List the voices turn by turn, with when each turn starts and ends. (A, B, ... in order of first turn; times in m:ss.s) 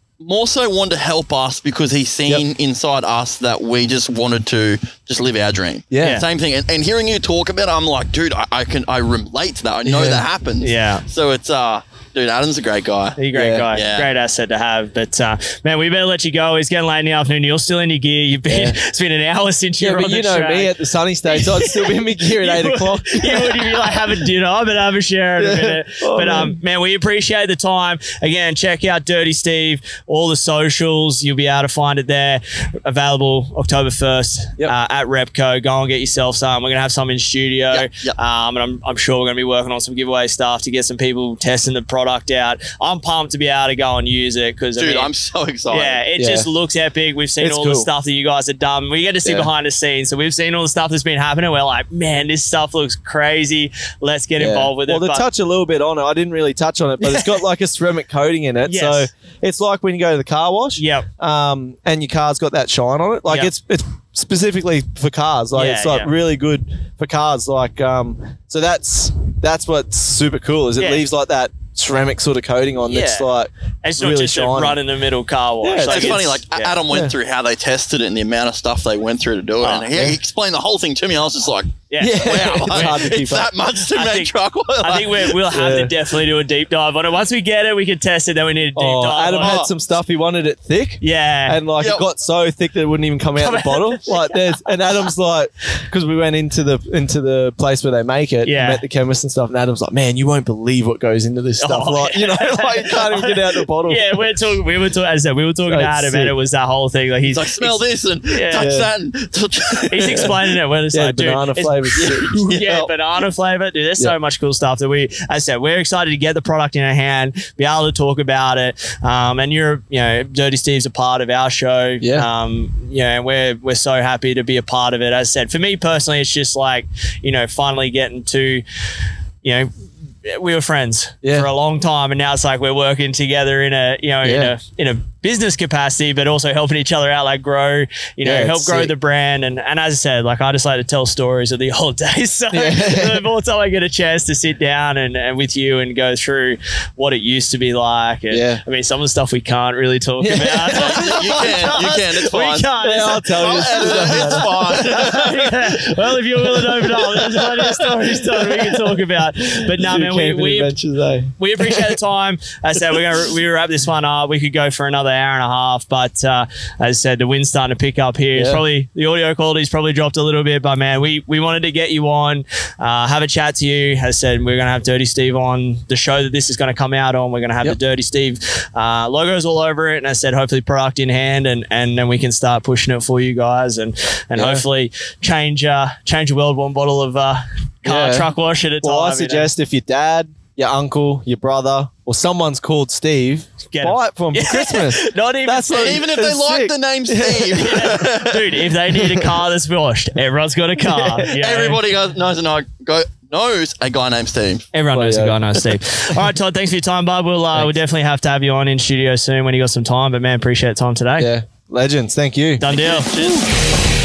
0:00.2-0:13.2 A
0:05.9-0:06.2 B
0:09.8-0:10.2 B
0:10.6-0:11.0 C
0:13.2-0:20.8 C
0:13.3-0:13.7 B
0:13.7-0:14.1 A
0:18.5-0:18.8 B
0:19.8-0:24.2 B
0:21.3-0:45.1 C
0:25.4-0:26.6 B
0:37.7-0:38.2 A
0:44.8-0:46.0 A
0:45.7-0:55.2 C
0:46.2-0:46.5 B
0:47.4-0:47.9 B
0:54.4-1:14.8 B
0:57.0-0:57.4 C
0:58.6-0:59.1 C
1:00.8-1:01.0 C
1:05.5-1:06.1 C
1:10.8-1:11.0 C
1:12.8-1:13.3 C
1:13.8-1:16.8 C
1:15.6-1:16.2 B
1:15.9-1:25.4 A
1:19.6-1:19.9 C
1:21.9-1:23.1 C
1:22.0-1:23.5 B
1:23.9-1:29.6 C
1:25.4-1:25.9 B
1:28.8-1:44.2 B
1:29.4-1:29.7 A
1:31.0-1:31.6 C
1:31.8-1:32.0 A
1:33.4-1:34.5 C
1:38.4-1:38.8 C
1:41.6-1:48.7 C
1:45.7-1:46.3 B
1:47.2-1:50.3 A
1:48.5-1:48.9 B
1:49.9-2:08.6 C
1:50.9-1:52.9 B
1:52.5-1:52.8 A
2:02.0-2:02.3 B
2:09.4-2:09.7 C
2:10.2-2:40.7 C
2:11.2-2:11.5 B
2:14.2-2:14.5 B
2:18.2-2:18.9 B
2:22.5-2:23.2 B
2:28.3-2:28.6 B
2:30.2-2:31.8 B
2:30.7-2:35.4 A
2:32.8-2:35.4 B
2:36.4-2:42.0 B
2:41.4-3:09.5 C
2:48.4-2:48.6 B
3:04.3-3:04.6 B
3:07.8-3:08.3 B
3:08.8-3:18.0 B
3:13.7-3:16.0 C
3:15.7-3:18.4 A
3:17.5-3:21.8 C
3:18.9-3:19.3 B
3:21.3-3:24.7 A
3:24.7-3:31.3 C
3:24.9-3:25.4 B
3:31.2-3:32.6 B
3:32.6-3:33.1 C
3:32.7-3:33.5 A